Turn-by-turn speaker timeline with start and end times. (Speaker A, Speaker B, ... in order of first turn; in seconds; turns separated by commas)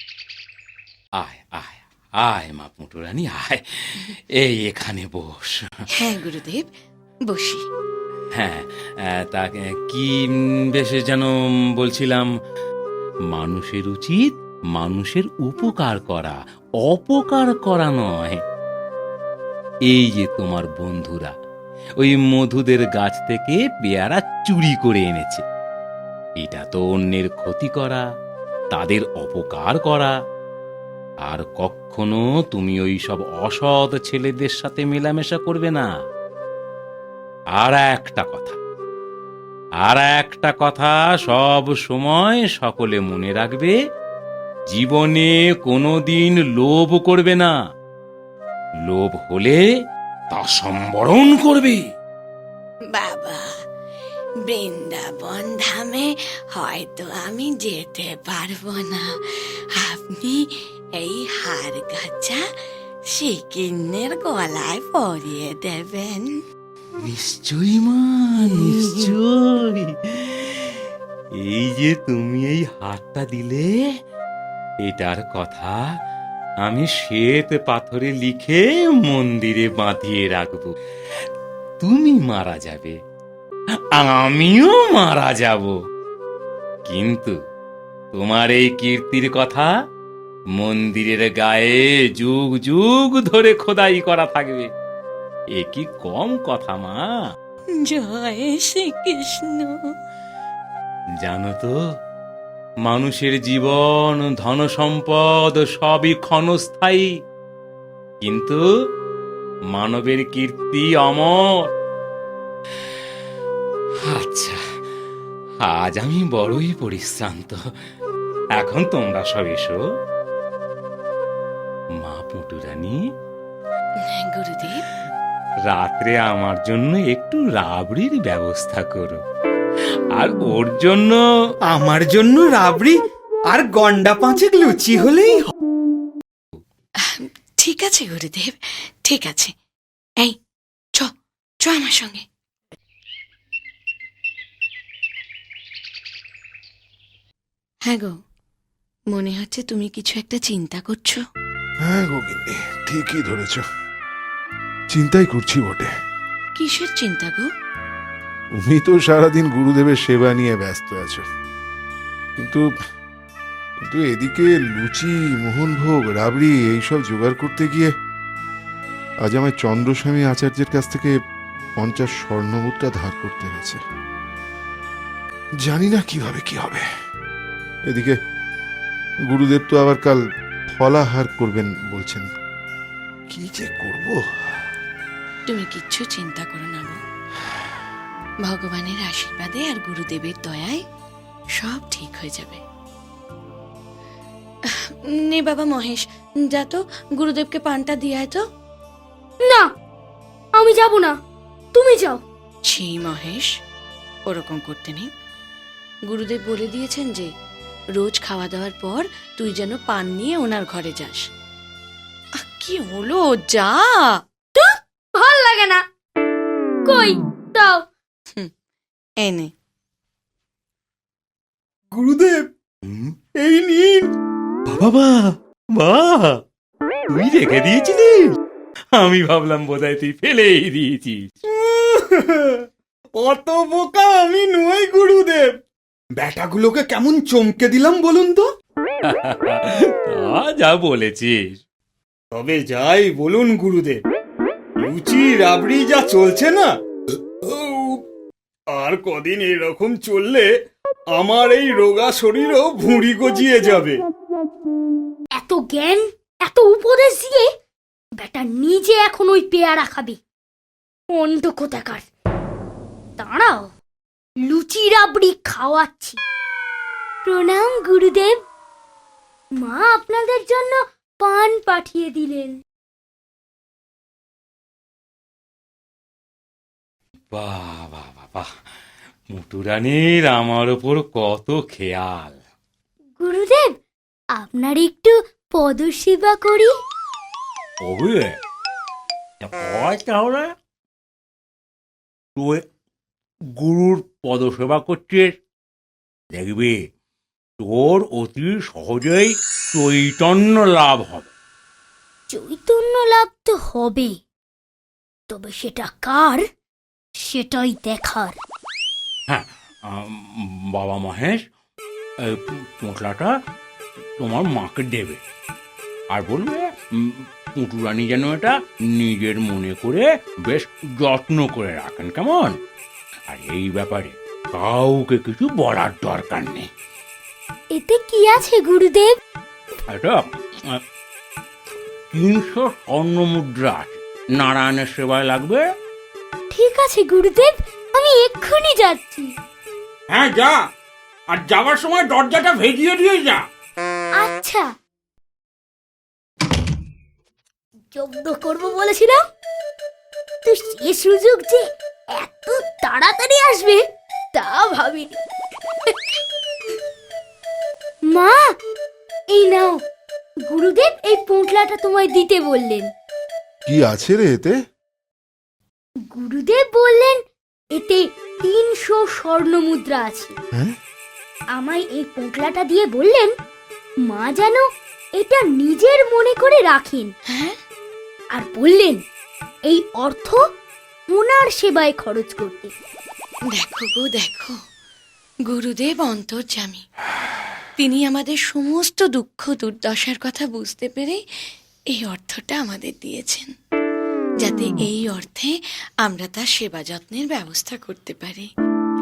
Speaker A: 1.2-5.8, Speaker B: 6.0-6.7, Speaker B: 7.3-7.6, Speaker A: 8.3-12.3, Speaker A: 13.3-18.4, Speaker A: 19.9-21.3, Speaker A: 22.0-25.4, Speaker A: 26.4-28.0, Speaker A: 28.7-30.1, Speaker A: 31.2-35.9, Speaker A: 37.6-38.6, Speaker A: 39.8-43.8, Speaker A: 44.7-47.5, Speaker A: 48.9-49.6, Speaker A: 50.3-51.8, Speaker B: 52.9-53.4, Speaker B: 54.5-62.4, Speaker B: 63.1-66.4, Speaker A: 67.0-70.8, Speaker B: 68.5-68.9, Speaker A: 71.4-73.8, Speaker A: 74.8-75.8, Speaker A: 76.6-80.7, Speaker A: 81.8-83.0, Speaker A: 84.0-85.8, Speaker A: 86.9-87.4, Speaker A: 88.1-89.7, Speaker A: 90.6-94.7, Speaker A: 95.5-97.0, Speaker B: 97.7-99.8, Speaker A: 101.2-101.8, Speaker A: 102.8-107.1, Speaker A: 108.2-108.6, Speaker A: 109.7-111.7, Speaker A: 114.1-114.6, Speaker A: 115.6-117.6, Speaker A: 118.6-119.8, Speaker A: 122.0-123.0, Speaker B: 124.0-124.8, Speaker A: 125.7-129.2, Speaker A: 130.2-131.2, Speaker C: 131.7-133.0, Speaker C: 133.5-135.4, Speaker B: 137.0-139.5, Speaker B: 141.6-142.2, Speaker B: 147.9-148.2, Speaker B: 149.1-151.2, Speaker D: 151.8-153.6, Speaker D: 154.9-155.9, Speaker B: 156.6-157.5, Speaker D: 158.6-161.2, Speaker D: 162.4-162.7, Speaker D: 163.8-167.9, Speaker D: 169.2-171.2, Speaker D: 171.8-173.8, Speaker D: 175.6-176.8, Speaker D: 177.9-178.2, Speaker D: 179.3-182.3, Speaker D: 183.3-184.2, Speaker B: 185.5-187.0, Speaker B: 188.4-190.8, Speaker B: 191.6-192.6, Speaker B: 194.7-198.5, Speaker E: 200.6-201.1, Speaker E: 201.8-202.2, Speaker B: 202.7-203.5, Speaker B: 204.3-205.1, Speaker B: 206.1-207.3, Speaker B: 208.0-211.3, Speaker B: 212.4-214.2, Speaker E: 214.6-215.8, Speaker E: 216.8-217.8, Speaker B: 219.2-219.5, Speaker C: 221.9-222.5, Speaker A: 222.9-223.1, Speaker C: 223.3-224.1, Speaker A: 224.7-226.4, Speaker A: 227.1-228.3, Speaker A: 228.9-231.3, Speaker C: 231.5-232.7, Speaker C: 233.2-235.5, Speaker C: 236.2-238.5, Speaker A: 239.1-241.5, Speaker C: 242.3-244.0, Speaker C: 244.8-246.7, Speaker C: 247.4-248.0, Speaker C: 248.7-250.5, Speaker C: 251.2-254.0, Speaker E: 255.4-257.5, Speaker E: 258.2-260.2, Speaker E: 261.1-262.1, Speaker E: 263.2-263.7, Speaker E: 264.4-266.2, Speaker E: 267.3-268.4, Speaker E: 269.6-272.6, Speaker A: 277.3-278.5, Speaker A: 279.3-282.4, Speaker E: 283.2-283.8, Speaker E: 284.4-286.7, Speaker A: 287.8-288.4, Speaker A: 289.4-290.5, Speaker A: 292.4-292.6, Speaker A: 293.6-295.4, Speaker A: 296.3-296.8, Speaker A: 297.6-301.3, Speaker E: 302.3-304.2, Speaker E: 305.3-306.4, Speaker E: 307.2-308.4, Speaker A: 309.3-311.4, Speaker A: 312.2-313.4, Speaker A: 314.2-315.2, Speaker A: 316.1-322.6, Speaker A: 323.3-326.7, Speaker E: 327.8-329.2, Speaker A: 329.9-330.8, Speaker A: 332.1-335.6, Speaker E: 336.5-339.3, Speaker C: 340.1-340.6, Speaker C: 341.4-343.0, Speaker E: 344.2-344.7, Speaker E: 347.9-349.2, Speaker E: 350.4-353.8, Speaker E: 354.3-355.1, Speaker E: 358.1-358.4, Speaker E: 359.3-359.8, Speaker E: 360.5-362.9, Speaker D: 363.7-364.5, Speaker E: 366.1-367.2, Speaker E: 367.8-370.4, Speaker E: 371.6-373.3, Speaker E: 374.1-374.6, Speaker E: 375.2-377.1, Speaker B: 377.3-377.6, Speaker E: 378.3-379.0, Speaker E: 379.7-380.4, Speaker E: 381.1-382.7, Speaker B: 383.5-384.6, Speaker B: 385.5-386.9, Speaker B: 387.8-391.2, Speaker B: 391.9-393.5, Speaker B: 394.4-398.5